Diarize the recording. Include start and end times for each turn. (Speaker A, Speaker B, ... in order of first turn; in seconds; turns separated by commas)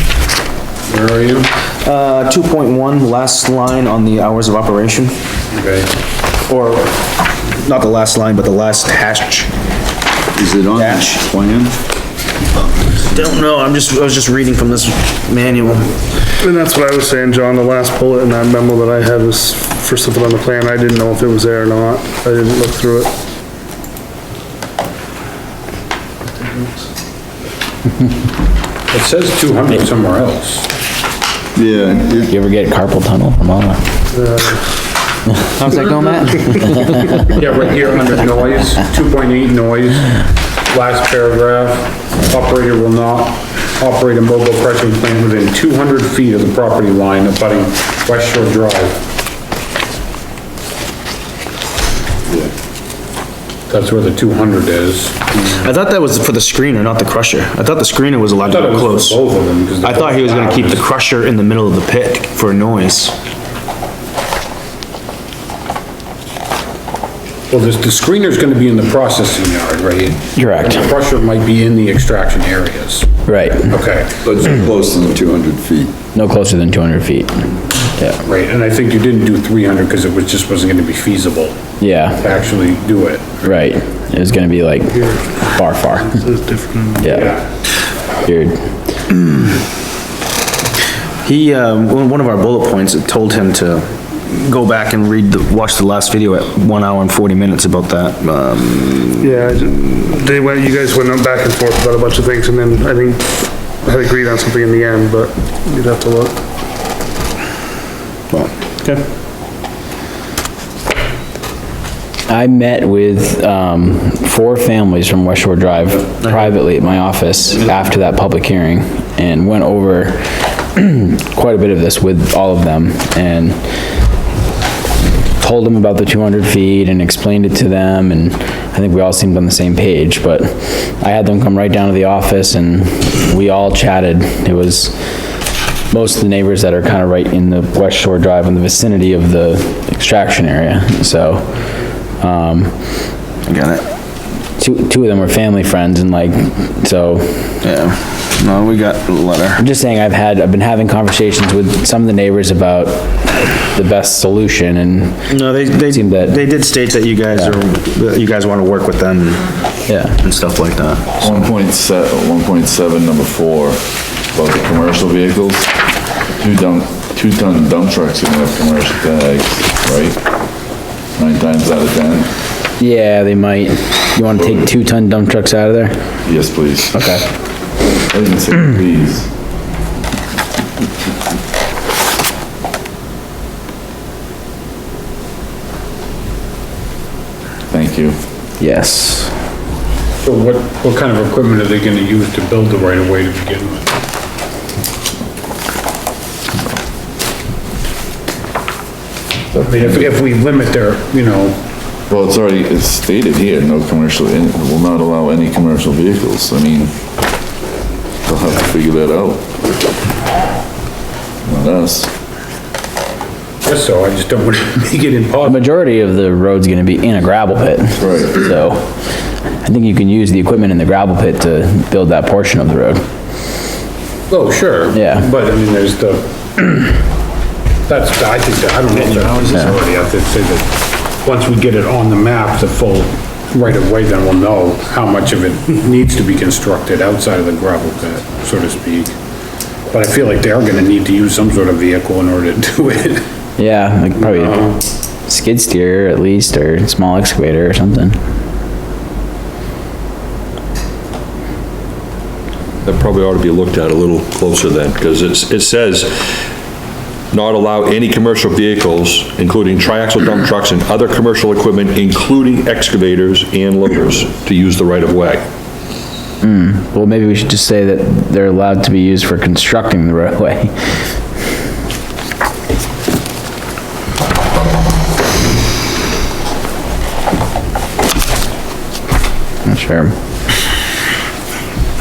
Speaker A: 0.9-1.5, Speaker B: 1.8-5.2, Speaker A: 5.5-5.9, Speaker B: 6.5-9.5, Speaker C: 10.3-11.8, Speaker B: 10.7-11.2, Speaker B: 12.9-15.9, Speaker D: 16.4-23.1, Speaker A: 28.9-30.7, Speaker C: 31.5-32.3, Speaker E: 32.3-33.7, Speaker D: 34.1-34.6, Speaker B: 35.5-37.1, Speaker A: 37.3-49.0, Speaker A: 53.7-55.6, Speaker B: 55.5-59.2, Speaker A: 58.4-60.9, Speaker B: 59.8-63.1, Speaker A: 67.5-73.1, Speaker A: 73.6-74.1, Speaker C: 74.2-75.9, Speaker E: 76.3-77.2, Speaker A: 78.2-81.6, Speaker A: 82.2-83.7, Speaker E: 83.4-86.0, Speaker D: 85.0-85.3, Speaker D: 86.0-87.2, Speaker A: 87.1-87.4, Speaker B: 91.2-99.6, Speaker D: 99.2-106.3, Speaker E: 112.4-115.8, Speaker B: 116.2-116.5, Speaker E: 116.5-120.1, Speaker E: 120.8-123.5, Speaker E: 125.4-134.9, Speaker E: 135.9-141.4, Speaker E: 142.2-142.7, Speaker B: 143.4-143.8, Speaker E: 144.6-147.5, Speaker B: 147.6-149.6, Speaker E: 149.6-155.1, Speaker B: 155.3-159.7, Speaker B: 160.2-161.4, Speaker F: 161.2-163.8, Speaker F: 164.3-165.7, Speaker F: 166.4-170.2, Speaker F: 171.2-172.3, Speaker E: 173.0-173.6, Speaker F: 174.3-174.6, Speaker E: 174.6-175.8, Speaker F: 176.2-177.2, Speaker F: 178.1-179.3, Speaker F: 187.7-188.2, Speaker A: 190.2-194.0, Speaker F: 199.5-200.0, Speaker A: 199.6-201.6, Speaker F: 202.1-206.9, Speaker F: 208.2-209.4, Speaker F: 211.4-212.1, Speaker A: 213.6-215.8, Speaker E: 215.5-217.8, Speaker F: 218.0-218.4, Speaker E: 218.4-218.7, Speaker E: 219.7-223.0, Speaker A: 224.3-226.9, Speaker A: 227.9-239.2, Speaker B: 229.1-229.5, Speaker A: 239.9-243.2, Speaker E: 243.6-244.6, Speaker A: 244.3-244.7, Speaker E: 245.5-248.1, Speaker G: 252.8-256.4, Speaker G: 257.3-265.4, Speaker E: 266.6-270.7, Speaker E: 279.7-280.1